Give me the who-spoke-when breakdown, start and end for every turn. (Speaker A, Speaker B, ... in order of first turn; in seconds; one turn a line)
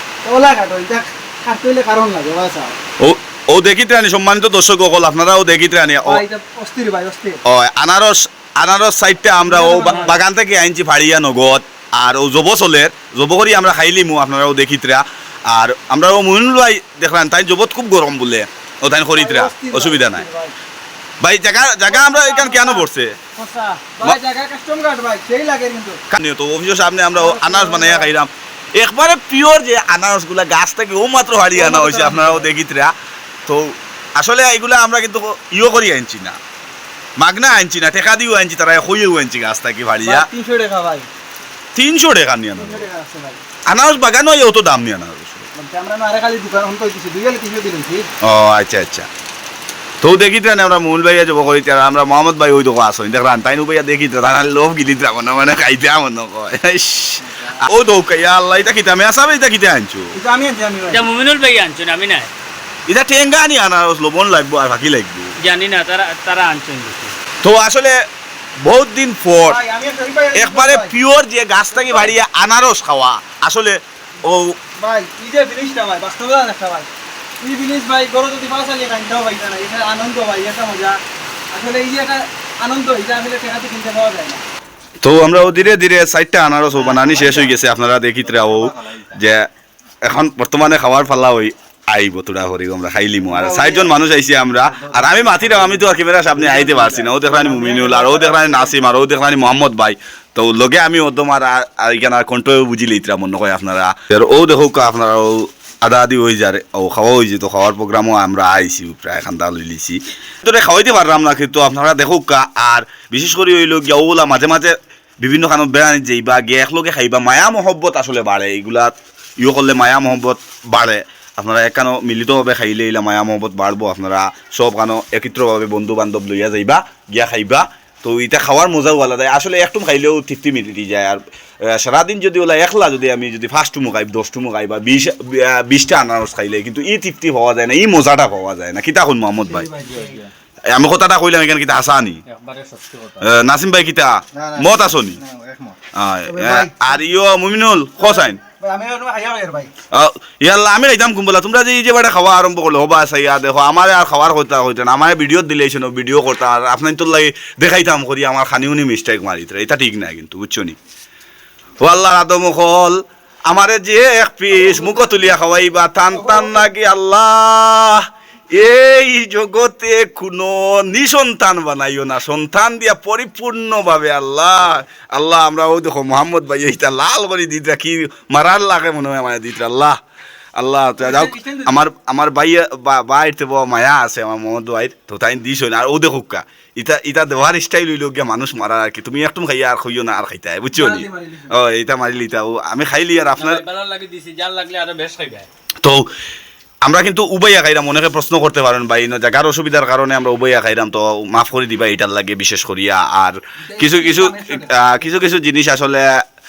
Speaker A: 0.2-2.7
Speaker B: 3.0-6.2
Speaker A: 6.0-7.4
Speaker B: 7.4-20.2
Speaker A: 9.4-10.2
Speaker C: 9.8-10.1
Speaker A: 19.1-20.5
Speaker B: 21.2-23.2
Speaker A: 21.9-22.9
Speaker C: 23.3-23.8
Speaker A: 24.0-26.0
Speaker B: 26.1-32.9
Speaker A: 27.1-28.1
Speaker A: 31.5-32.5
Speaker B: 33.5-36.4
Speaker B: 37.2-40.3
Speaker A: 40.0-41.1
Speaker B: 41.7-42.9
Speaker A: 42.5-43.4
Speaker B: 43.7-45.5
Speaker A: 45.5-48.1
Speaker B: 48.2-49.1
Speaker B: 50.0-60.1
Speaker A: 60.1-61.0
Speaker C: 60.9-62.3
Speaker B: 62.9-65.3
Speaker C: 65.4-67.2
Speaker B: 67.4-68.0
Speaker B: 68.6-69.6
Speaker A: 69.4-70.9
Speaker B: 70.3-74.6
Speaker A: 71.7-72.1
Speaker A: 74.8-76.9
Speaker A: 77.4-81.0
Speaker A: 81.5-84.4
Speaker B: 85.0-89.5
Speaker A: 86.8-87.5
Speaker B: 90.0-139.7
Speaker A: 93.3-93.9
Speaker A: 96.4-98.7
Speaker A: 139.5-140.2
Speaker C: 139.9-140.3
Speaker B: 140.7-142.2
Speaker C: 142.2-143.2
Speaker B: 143.2-145.2
Speaker A: 144.3-145.8
Speaker B: 145.9-148.4
Speaker A: 146.3-147.0
Speaker A: 148.0-149.7
Speaker B: 149.9-160.8
Speaker B: 161.8-180.0
Speaker A: 164.6-165.2
Speaker A: 166.1-166.6
Speaker B: 180.6-193.6
Speaker A: 181.0-181.8
Speaker A: 190.7-191.6
Speaker C: 193.3-195.5
Speaker B: 195.8-196.1
Speaker B: 196.8-206.2
Speaker A: 203.7-204.8